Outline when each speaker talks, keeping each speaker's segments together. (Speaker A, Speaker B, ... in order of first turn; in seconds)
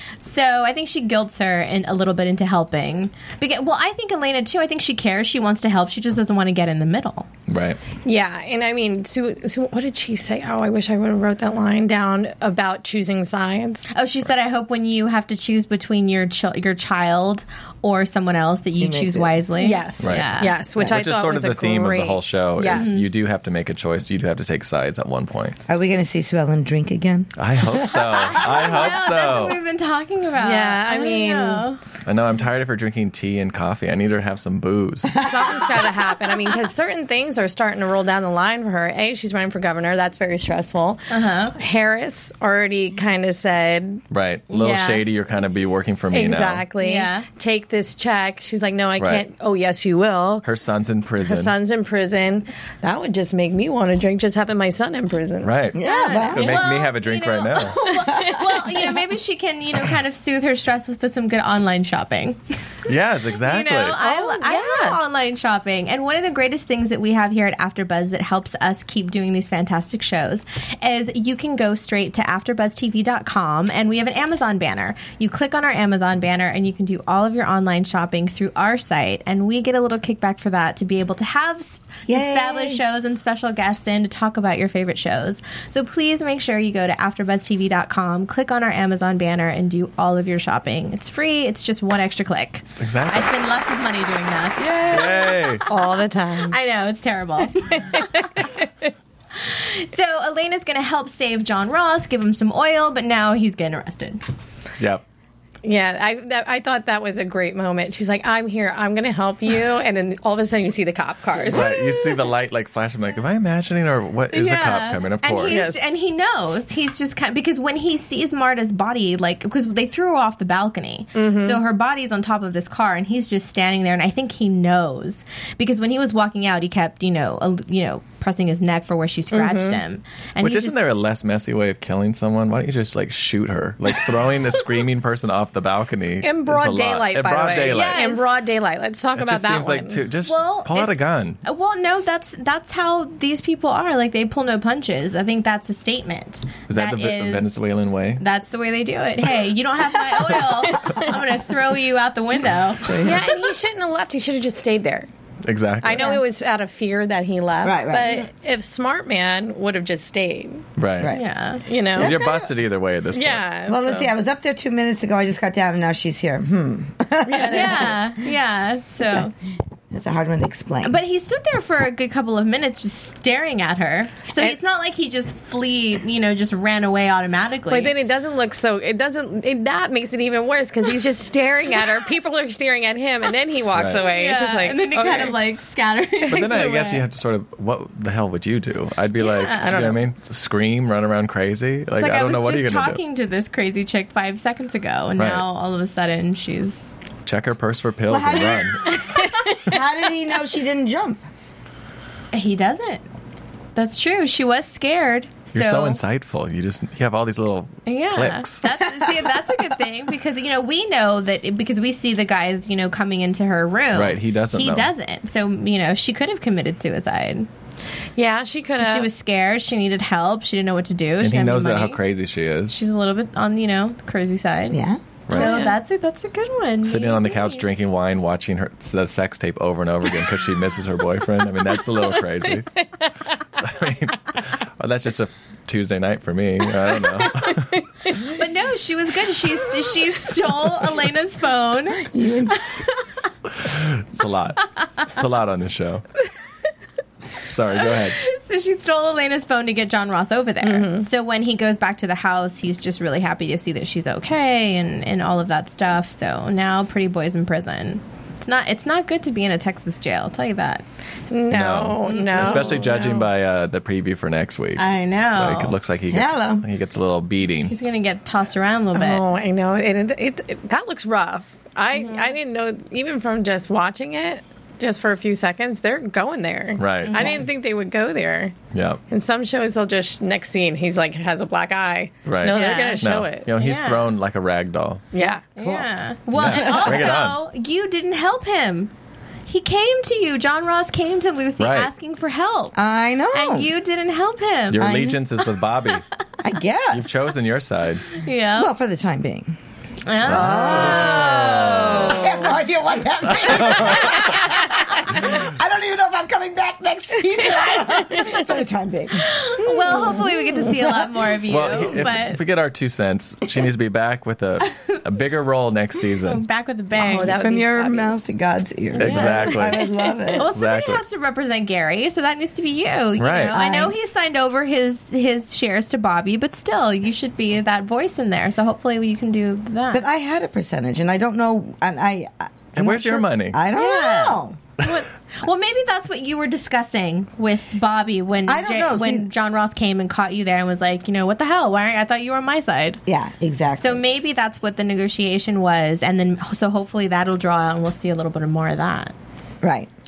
Speaker A: 0.2-7.3, 13.9-20.6, 22.7-23.1, 28.2-31.8, 41.1-41.5, 44.5-45.0, 46.8-47.2, 55.8-62.7, 63.4-95.6, 96.5-98.3, 99.3-104.2, 111.5-111.8, 114.3-130.9, 137.5-138.3, 140.2-147.5, 148.2-153.1, 161.1-161.6, 167.5-169.3, 170.8-177.9, 183.9-187.0, 189.2-189.8, 192.0-196.9, 202.3-203.0, 203.8-206.0, 207.8-217.5, 218.8-222.0, 222.7-227.6, 238.1-243.0, 247.8-260.8, 262.0-262.8, 264.8-265.7, 267.6-269.2, 271.9-272.3, 277.0-277.4, 282.4-283.0, 283.6-284.1, 285.5-288.9, 289.5-292.8, 293.3-294.9, 298.1-298.7, 300.1-301.5, 309.1-312.4, 316.2-317.4, 319.0-330.0, 333.7-343.0, 343.8-349.1
Speaker B: 7.5-7.8, 20.0-25.6, 27.4-29.6, 32.0-35.3, 44.1-46.6, 49.0-49.2, 50.4-51.5, 55.4-57.8, 62.9-64.0, 92.8-93.3, 94.9-95.6, 111.5-115.7, 130.4-138.1, 139.1-141.4, 146.7-148.2, 155.4-156.2, 160.8-161.1, 161.9-163.4, 183.7-184.0, 186.3-193.0, 195.2-195.4, 197.2-198.9, 205.5-208.6, 213.9-214.9, 221.2-222.8, 225.3-225.7, 226.8-232.7, 233.6-237.8, 243.6-246.0, 247.5-248.2, 261.5-267.7, 276.8-277.4, 278.7-279.0, 282.2-285.0, 286.3-287.4, 291.6-291.9, 294.7-296.0, 296.9-298.1, 300.2-302.2, 303.3-304.4, 311.5-316.4, 319.0-319.9, 320.5-321.0, 323.2-323.6, 332.8-333.6
Speaker C: 8.0-13.9, 19.6-23.0, 30.4-31.6, 35.1-44.0, 46.1-50.4, 51.2-55.5, 57.8-58.9, 64.0-65.0, 95.7-96.6, 97.7-98.7, 105.6-111.9, 115.5-115.9, 121.1-121.6, 129.3-129.8, 136.2-140.0, 150.4-151.2, 153.0-155.1, 155.8-160.6, 161.6-162.2, 163.1-164.1, 167.2-168.0, 177.7-185.4, 186.3-186.6, 189.2-190.0, 198.9-199.8, 218.2-219.1, 225.4-225.7, 250.6-251.1, 261.3-263.3, 268.9-278.6, 279.1-283.5, 285.1-285.5, 300.4-302.4, 307.6-308.4, 316.9-318.2
Speaker D: 18.8-19.4, 25.7-27.3, 35.2-35.5, 55.7-56.6, 58.1-58.4, 82.1-82.8, 152.9-153.2, 157.6-158.2, 161.0-161.2, 161.9-162.5, 163.7-168.3, 169.0-169.3, 169.9-171.0, 198.1-199.0, 199.5-201.2, 224.7-225.7, 242.0-242.6, 266.1-266.6, 285.6-285.9, 286.4-287.1, 292.7-293.7, 294.8-295.2, 296.4-297.2, 298.5-299.5, 300.3-311.1, 317.1-320.5, 323.5-323.9, 329.9-334.6, 338.4-339.3, 343.1-344.0, 349.6-349.9